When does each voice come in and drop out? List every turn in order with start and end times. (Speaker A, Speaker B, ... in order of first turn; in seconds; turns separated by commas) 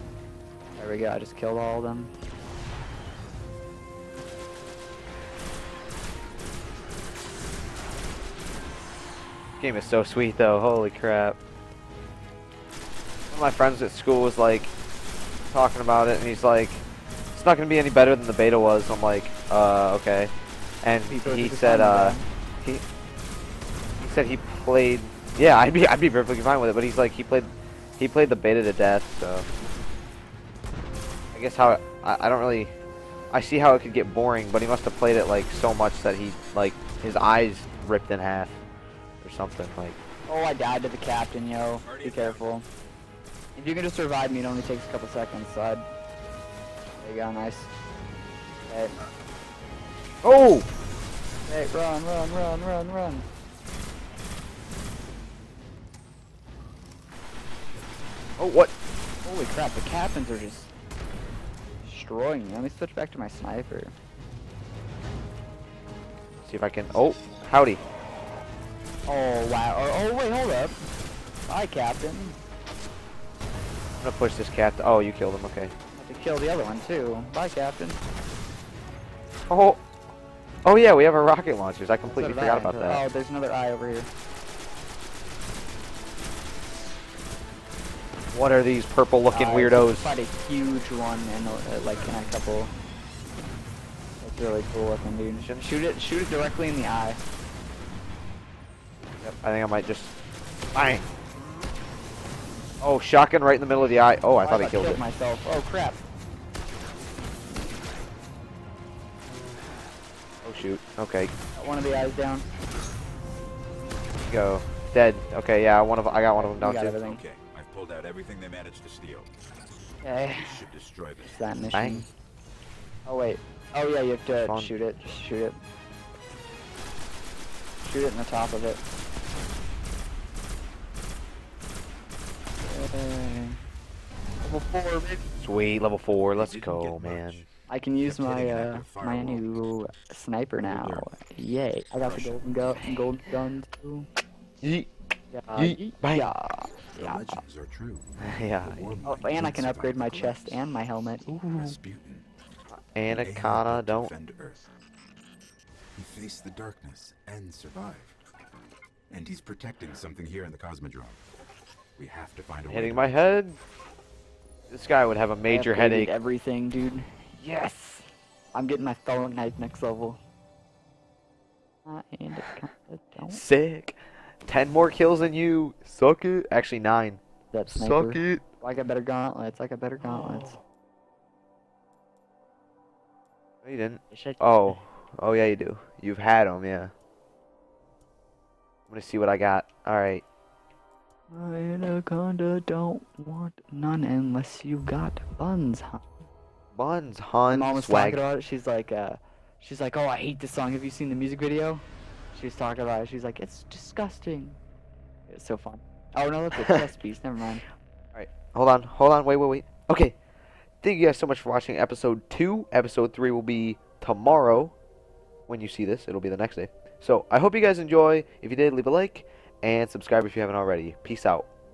Speaker A: 0.8-2.1, Speaker B: 9.6-11.4, Speaker B: 13.3-14.7, Speaker B: 15.5-16.8, Speaker B: 17.3-20.3, Speaker B: 20.8-22.8, Speaker A: 21.1-22.3, Speaker B: 24.0-29.5, Speaker B: 31.3-32.7, Speaker B: 33.3-38.6, Speaker B: 39.2-40.0, Speaker A: 40.3-42.7, Speaker C: 41.8-42.4, Speaker A: 43.6-45.9, Speaker A: 47.0-47.7, Speaker A: 48.7-49.0, Speaker B: 50.2-50.7, Speaker A: 51.5-53.3, Speaker B: 58.4-58.7, Speaker A: 59.2-60.7, Speaker A: 61.8-63.9, Speaker B: 66.4-67.8, Speaker A: 69.1-70.8, Speaker A: 71.5-72.4, Speaker B: 74.0-75.7, Speaker A: 76.0-78.0, Speaker B: 79.5-79.8, Speaker B: 80.7-83.0, Speaker A: 82.0-84.1, Speaker B: 88.3-90.1, Speaker A: 89.3-92.7, Speaker A: 94.2-97.2, Speaker B: 95.3-95.8, Speaker B: 99.2-100.1, Speaker B: 100.7-101.1, Speaker B: 102.8-105.0, Speaker A: 104.4-106.0, Speaker B: 110.4-111.3, Speaker A: 111.6-112.5, Speaker B: 114.3-117.0, Speaker A: 116.3-117.2, Speaker C: 117.0-119.3, Speaker A: 120.0-120.6, Speaker C: 120.3-121.4, Speaker A: 121.2-122.1, Speaker B: 121.7-122.0, Speaker A: 123.1-125.6, Speaker B: 124.4-124.8, Speaker A: 127.8-128.8, Speaker A: 132.7-133.6, Speaker A: 134.4-135.2, Speaker B: 135.4-137.4, Speaker C: 136.3-137.5, Speaker A: 137.7-144.1, Speaker C: 138.0-139.4, Speaker C: 140.6-141.1, Speaker C: 142.0-142.8, Speaker B: 144.6-144.9, Speaker A: 145.3-147.4, Speaker B: 145.6-146.3, Speaker C: 146.9-150.7, Speaker B: 148.2-149.0, Speaker A: 149.1-151.7, Speaker C: 151.5-152.3, Speaker B: 152.9-154.1, Speaker C: 153.1-154.7, Speaker C: 156.0-158.2, Speaker C: 159.1-161.2, Speaker C: 162.0-163.1, Speaker B: 162.7-163.6, Speaker B: 164.7-166.1, Speaker A: 165.5-170.2, Speaker A: 171.8-173.4, Speaker B: 173.3-178.4, Speaker A: 177.5-180.6, Speaker B: 180.0-180.6, Speaker B: 183.6-186.9, Speaker A: 184.1-184.8, Speaker B: 188.9-190.2, Speaker A: 191.3-196.1, Speaker B: 196.7-198.2, Speaker A: 197.4-204.6, Speaker A: 205.3-207.6, Speaker B: 208.1-210.2, Speaker B: 210.8-214.8, Speaker B: 215.5-221.5